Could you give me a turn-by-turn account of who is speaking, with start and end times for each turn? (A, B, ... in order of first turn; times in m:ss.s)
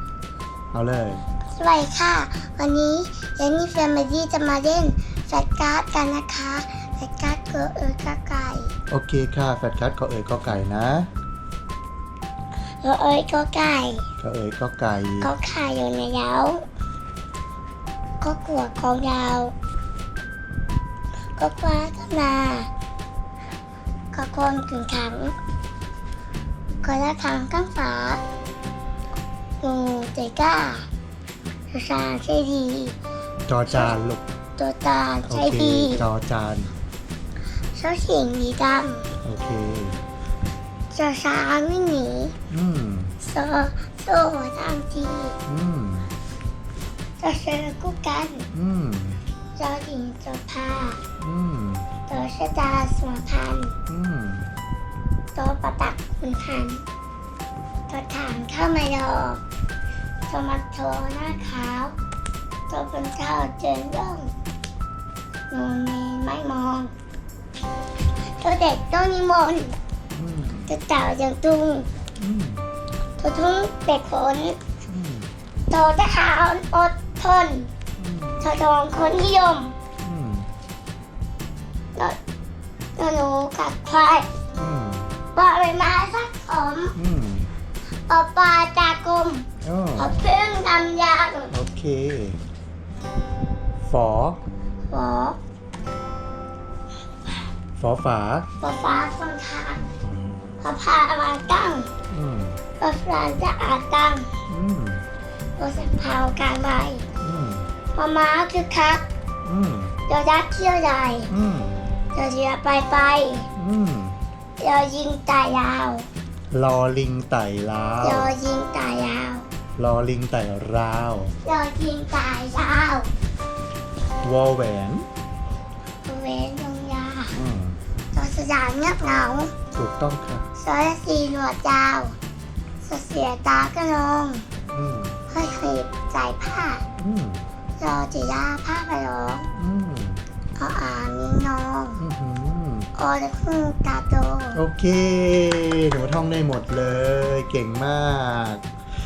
0:00.7-0:01.2 A
0:01.5-0:08.7 B
0:08.9-0:11.1 A
0:12.8-0:14.1 B
0:14.2-0:15.3 A
0:15.2-0:16.6 B
0:18.2-0:19.5 B
0:21.4-0:22.7 B
0:24.1-0:25.4 B
0:26.8-0:28.2 B
0:29.6-0:30.9 B
0:31.7-0:33.0 B
0:33.5-0:34.2 A
0:34.6-0:36.1 B
0:35.3-0:36.7 A
0:37.7-0:39.1 B
0:39.2-0:40.0 A
0:40.9-0:42.4 B
0:42.5-0:43.2 A
0:43.2-0:45.4 B
0:45.4-0:46.1 A
0:47.2-0:48.5 B
0:48.5-0:49.2 A
0:49.6-0:51.0 B
0:51.2-0:51.9 A
0:52.1-0:53.7 B
0:53.9-0:54.5 A
0:55.3-0:56.8 B
0:57.9-0:59.4 B
1:00.3-1:02.0 B
1:02.7-1:04.3 B
1:05.5-1:06.9 B
1:08.4-1:09.8 B
1:10.1-1:10.7 A
1:10.7-1:11.9 B
1:12.2-1:12.7 A
1:13.2-1:14.6 B
1:14.8-1:15.3 A
1:15.7-1:17.7 B
1:18.0-1:18.5 A
1:18.4-1:19.7 B
1:20.0-1:20.5 A
1:23.0-1:24.3 B
1:24.5-1:25.1 A
1:25.3-1:26.9 B
1:27.0-1:27.5 A
1:28.1-1:29.4 B
1:29.6-1:30.1 A
1:30.0-1:31.5 B
1:31.5-1:32.4 A
1:33.8-1:34.4 A
1:34.9-1:35.4 B
1:37.8-1:38.5 A
1:38.6-1:39.8 B
1:40.0-1:40.5 A
1:40.6-1:41.9 B
1:42.1-1:42.6 A
1:42.8-1:44.3 B
1:44.5-1:45.0 A
1:45.6-1:47.0 B
1:47.2-1:47.7 A
1:47.9-1:49.0 B
1:49.4-1:50.0 A
1:50.1-1:51.3 B
1:51.3-1:51.9 A
1:52.1-1:53.5 B
1:53.5-1:54.2 A
1:54.6-1:56.1 B
1:56.5-1:58.3 A
1:58.0-1:59.5 B
1:59.8-2:01.3 A
2:01.4-2:03.1 B
2:04.2-2:05.1 A
2:06.0-2:07.4 B
2:07.3-2:07.8 A
2:08.1-2:09.5 B
2:09.7-2:10.4 A
2:10.6-2:12.2 B
2:12.8-2:14.4 B
2:14.7-2:15.2 A
2:15.3-2:16.8 B
2:17.0-2:17.4 A
2:17.8-2:19.5 B
2:19.5-2:20.2 A
2:20.6-2:22.0 B
2:22.0-2:22.9 A
2:22.9-2:24.6 B
2:24.5-2:28.6 A